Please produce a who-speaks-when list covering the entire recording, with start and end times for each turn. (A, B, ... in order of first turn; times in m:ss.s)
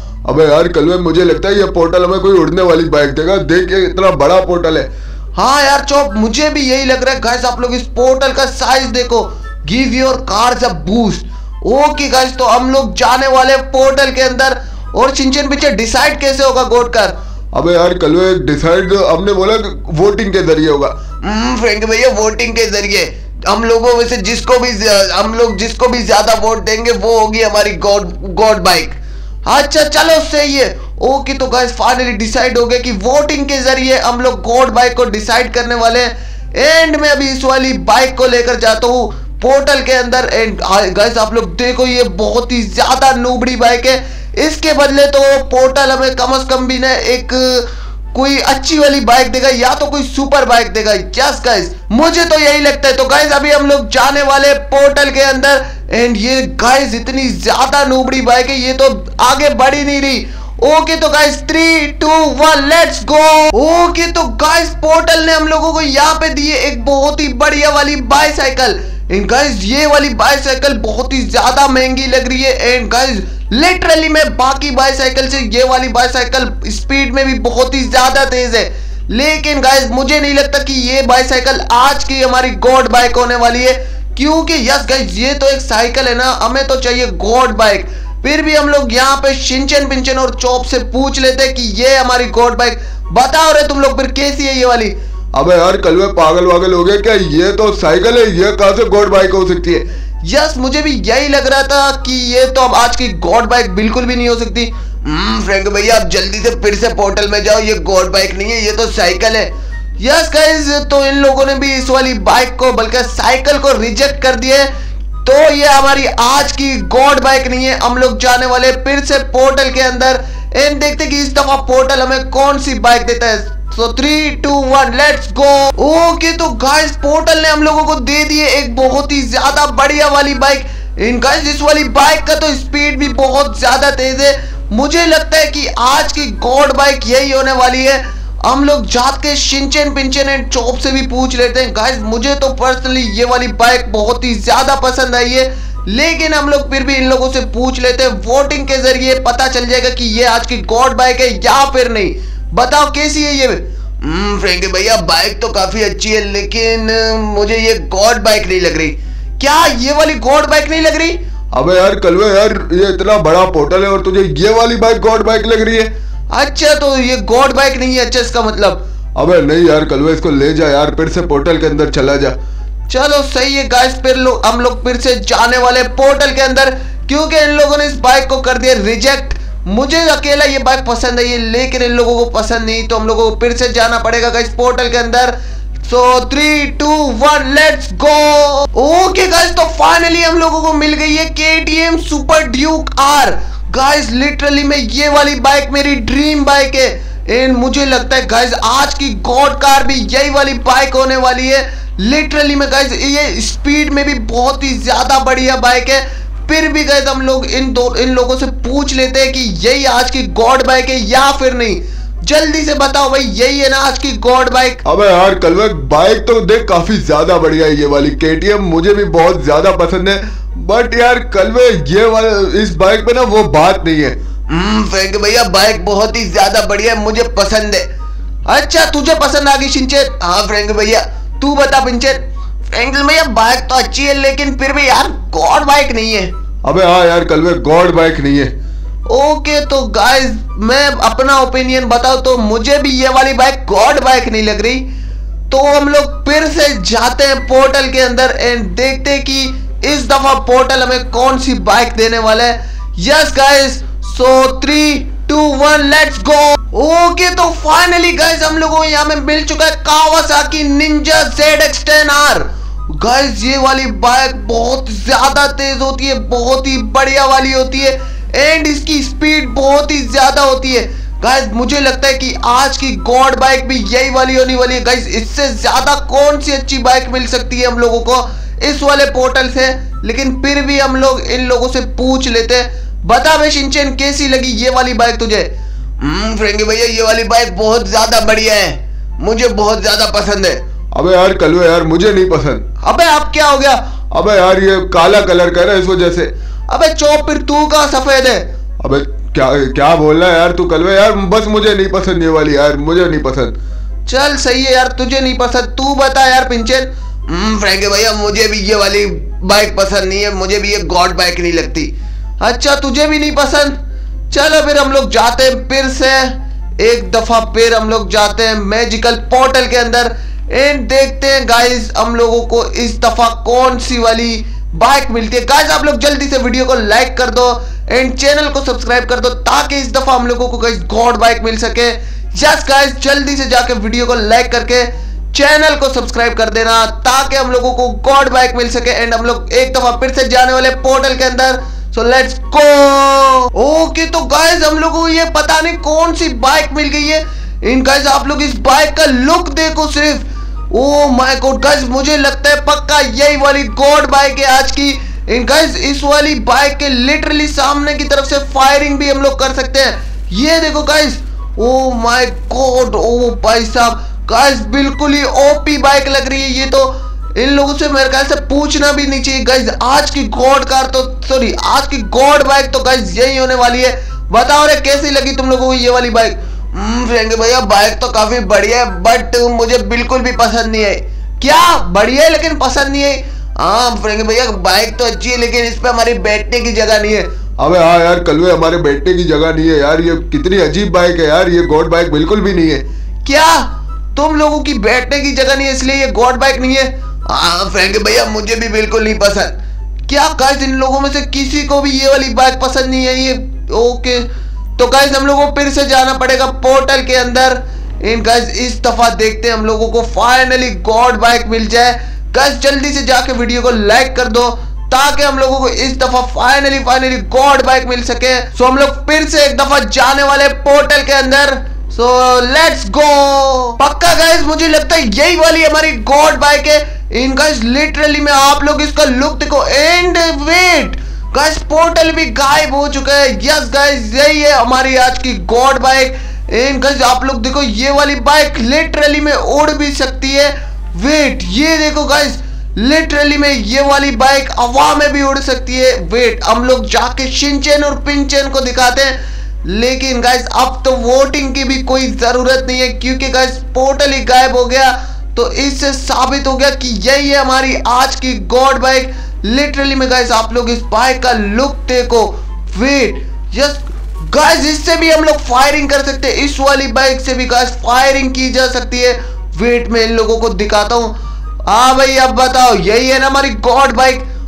0:00.2-0:04.9 A
0:05.4-0:17.1 B
0:17.5-0:21.0 A
0:21.2-1:34.9 B
1:35.3-1:39.8 A
1:40.2-1:54.7 B
1:55.2-2:41.2 B
2:41.5-2:45.9 A
2:46.3-2:48.8 B
2:49.2-2:52.3 A
2:52.9-3:34.8 B
3:34.8-3:44.2 A
3:44.5-3:47.9 B
3:48.4-3:52.2 B
3:52.7-3:56.3 B
3:56.6-3:58.5 A
3:59.1-4:04.8 B
4:05.5-4:50.6 B
4:50.9-4:52.6 A
4:52.8-4:53.9 B
4:54.1-4:56.3 A
4:56.7-4:58.4 B
4:58.8-5:03.6 A
5:04.0-5:13.8 B
5:14.3-6:27.3 B
6:27.6-6:32.8 A
6:33.2-6:39.6 B
6:40.1-7:51.1 B
7:51.6-7:54.2 B